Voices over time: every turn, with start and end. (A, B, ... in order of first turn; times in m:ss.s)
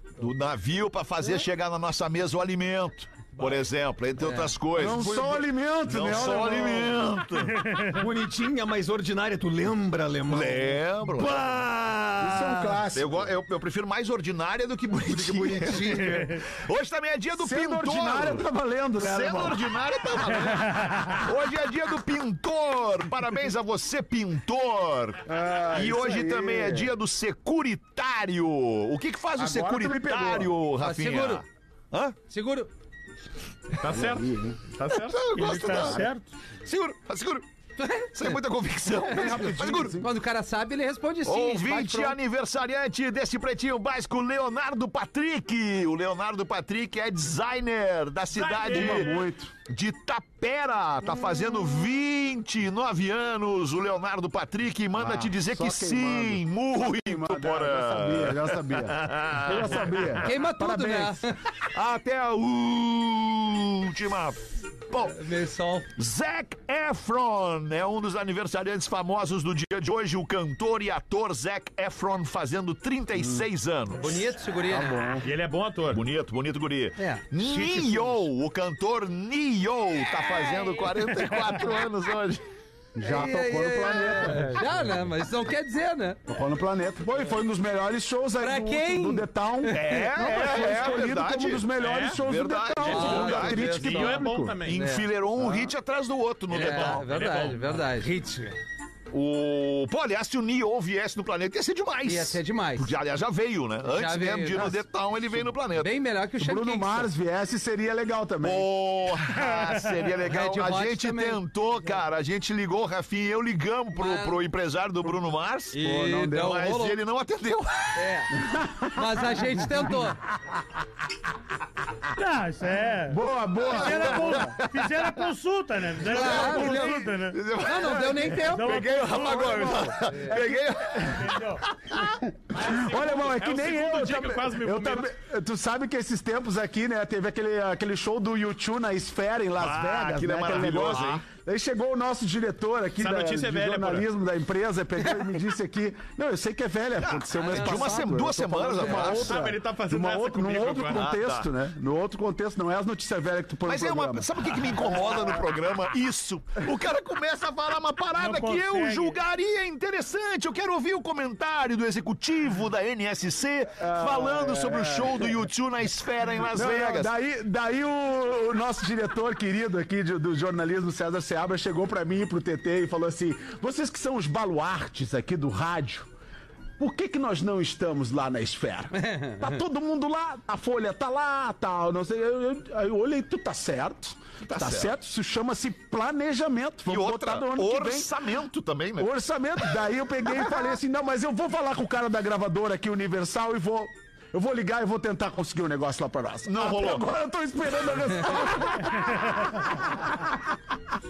0:00.2-0:07.6 A
0:03.4-0:03.7 B
0:04.7-0:07.0 C
0:07.5-0:08.1 D
0:07.9-0:12.8 B
0:10.3-0:11.5 A
0:12.2-0:13.3 C
0:12.9-0:18.4 A
0:15.5-0:16.1 B
0:17.4-0:19.7 C
0:19.0-0:32.2 A
0:20.5-0:21.2 D
0:25.2-0:26.9 C
0:29.4-0:30.6 C
0:30.8-0:31.4 E
0:32.3-0:32.7 E
0:33.8-0:36.0 F
0:33.8-0:34.6 C
0:35.1-0:36.0 A
0:35.3-0:36.3 D
0:36.6-0:37.4 A
0:37.8-0:38.4 E
0:38.1-0:40.0 A
0:39.0-0:40.1 C
0:40.0-0:42.2 E
0:41.2-0:49.1 A
0:48.3-0:49.1 F
0:48.7-0:49.5 C
0:49.7-1:00.2 A
0:54.9-1:01.2 C
1:00.2-1:01.3 E
1:01.6-1:05.2 A
1:05.0-1:05.8 E
1:06.0-1:14.3 A
1:13.1-1:13.5 C
1:14.0-1:15.2 E
1:14.7-1:15.3 C
1:15.2-1:16.0 F
1:15.9-1:22.4 A
1:17.0-1:17.2 E
1:17.4-1:18.2 B
1:20.1-1:21.7 E
1:23.0-1:24.6 C
1:23.0-1:26.2 E
1:24.3-1:24.6 B
1:26.3-1:34.6 C
1:28.4-1:30.6 E
1:29.7-1:31.7 A
1:31.8-1:32.2 F
1:32.2-1:37.1 A
1:32.8-1:34.9 F
1:32.8-1:35.0 E
1:35.4-1:35.7 C
1:36.5-1:38.1 E
1:36.6-1:37.5 F
1:37.3-1:38.6 B
1:39.1-1:45.9 A
1:42.0-1:42.9 E
1:43.8-1:44.8 E
1:45.7-1:47.1 E
1:46.4-1:48.7 C
1:48.4-1:58.1 A
1:50.2-1:51.4 E
1:53.9-1:54.4 E
1:55.7-1:57.0 E
1:55.8-1:56.6 C
1:58.0-1:58.3 E
1:58.3-1:59.9 C
1:58.9-2:00.2 E
2:02.2-2:03.2 D
2:03.1-2:04.6 C
2:03.7-2:07.4 D
2:03.7-2:05.3 A
2:06.1-2:07.0 E
2:06.1-2:12.1 A
2:07.6-2:08.9 E
2:08.3-2:10.4 D
2:09.1-2:11.1 C
2:10.0-2:10.3 E
2:11.1-2:11.6 D
2:12.1-2:35.4 C
2:12.5-2:15.1 F
2:19.6-2:21.2 A
2:20.4-2:21.2 F
2:23.0-2:24.1 F
2:27.0-2:29.3 A
2:27.4-2:28.0 E
2:28.8-2:29.1 E
2:29.0-2:31.1 F
2:30.9-2:31.5 A
2:33.6-2:47.1 A
2:38.1-2:39.2 D
2:43.8-2:45.5 C
2:46.5-2:56.1 C
2:56.8-3:08.1 C
2:58.9-2:59.6 E
3:04.4-3:04.9 A
3:06.9-3:09.1 A
3:09.0-3:20.5 C
3:16.4-3:17.0 A